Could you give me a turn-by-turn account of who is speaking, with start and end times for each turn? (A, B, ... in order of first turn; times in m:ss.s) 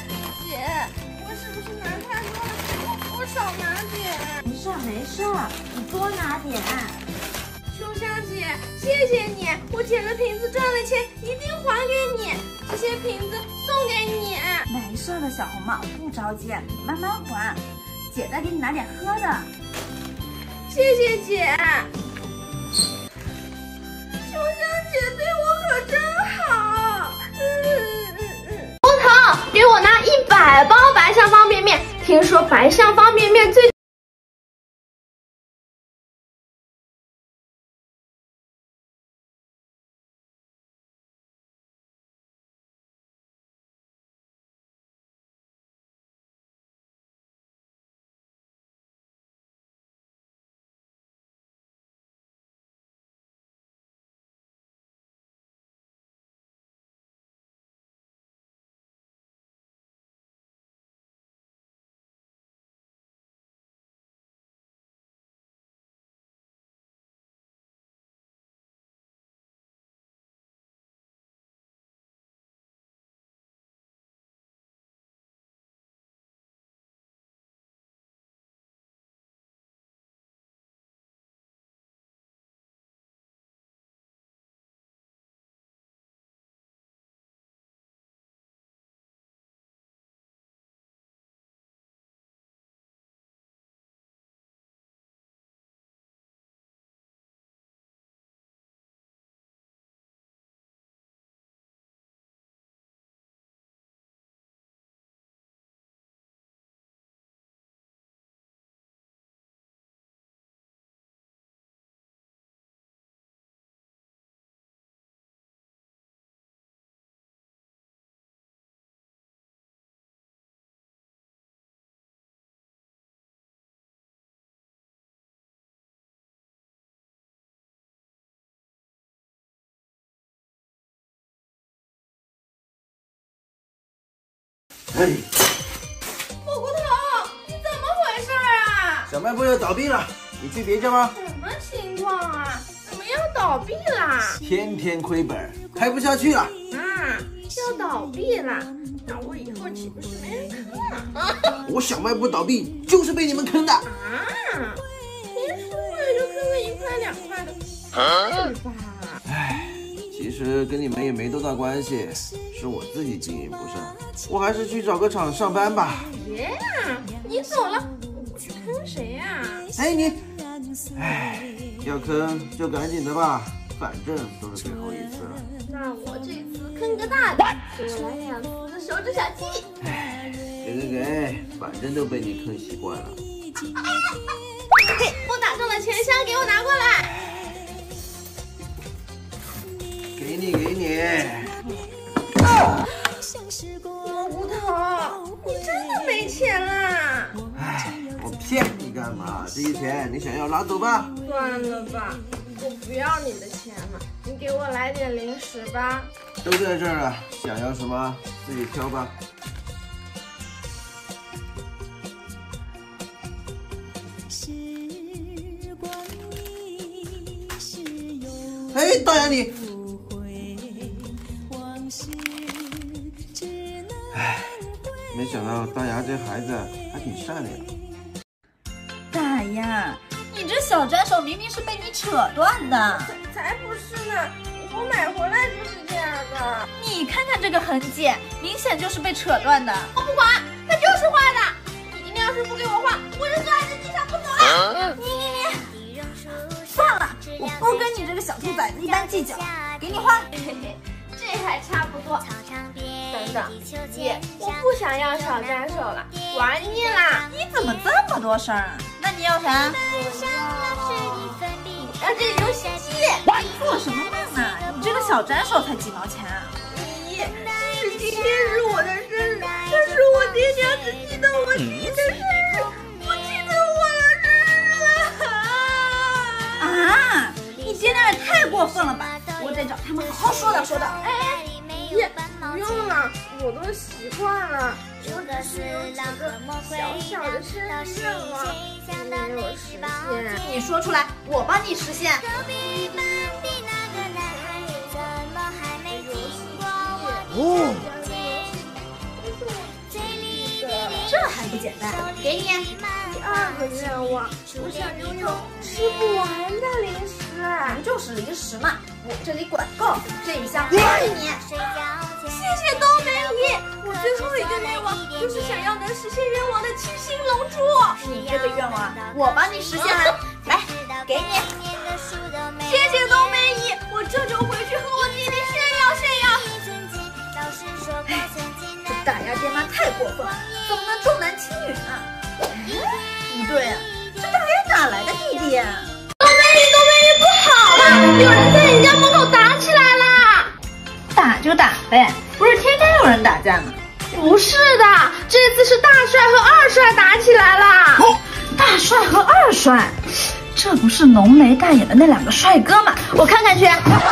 0:00.2-0:04.4 A
0:04.4-0:07.1 B
0:07.7-0:14.6 A
0:14.7-0:19.5 B
0:20.7-0:21.9 A
0:24.2-0:33.7 A
2:14.9-2:15.3 C
2:16.4-2:19.1 A
2:19.1-2:21.1 C
2:21.1-2:24.4 A
2:24.4-2:26.5 C
2:26.7-2:31.1 A
2:31.6-2:33.8 C
2:33.8-2:34.8 A
2:35.3-2:37.6 A
2:38.2-2:39.2 A
2:39.3-2:46.1 C
2:46.1-2:49.7 A
2:49.8-2:50.2 C
2:51.0-2:55.4 C
2:55.7-2:59.7 A
2:59.8-3:03.2 C
3:04.9-3:07.1 A
3:10.2-3:11.5 C
3:14.0-3:17.4 A
3:17.6-3:21.1 C
3:21.2-3:26.1 A
3:26.4-3:29.1 C
3:38.7-3:39.6 C
3:44.1-3:44.6 C
3:45.1-3:47.7 C
3:49.1-3:53.1 B
3:53.0-3:56.7 A
3:56.8-3:59.9 B
4:00.0-4:04.8 A
4:05.0-4:05.8 B
4:06.7-4:10.3 B
4:10.4-4:12.3 A
4:13.1-4:17.3 A
4:17.3-4:19.8 B
4:19.8-4:23.3 A
4:23.3-4:26.5 B
4:26.7-4:36.6 A
4:36.6-4:41.0 B
4:41.0-4:50.4 A
4:50.4-4:52.2 B
4:52.2-5:01.1 A
5:01.0-5:02.7 B
5:03.1-5:07.8 A
5:07.7-5:11.4 B
5:11.7-5:18.0 A
5:18.0-5:21.6 B
5:22.6-5:26.6 A
5:28.0-5:28.3 B
5:28.8-5:35.9 B
5:36.2-5:40.5 A
5:41.2-5:43.8 B
5:44.1-5:48.1 A
5:48.5-5:53.8 B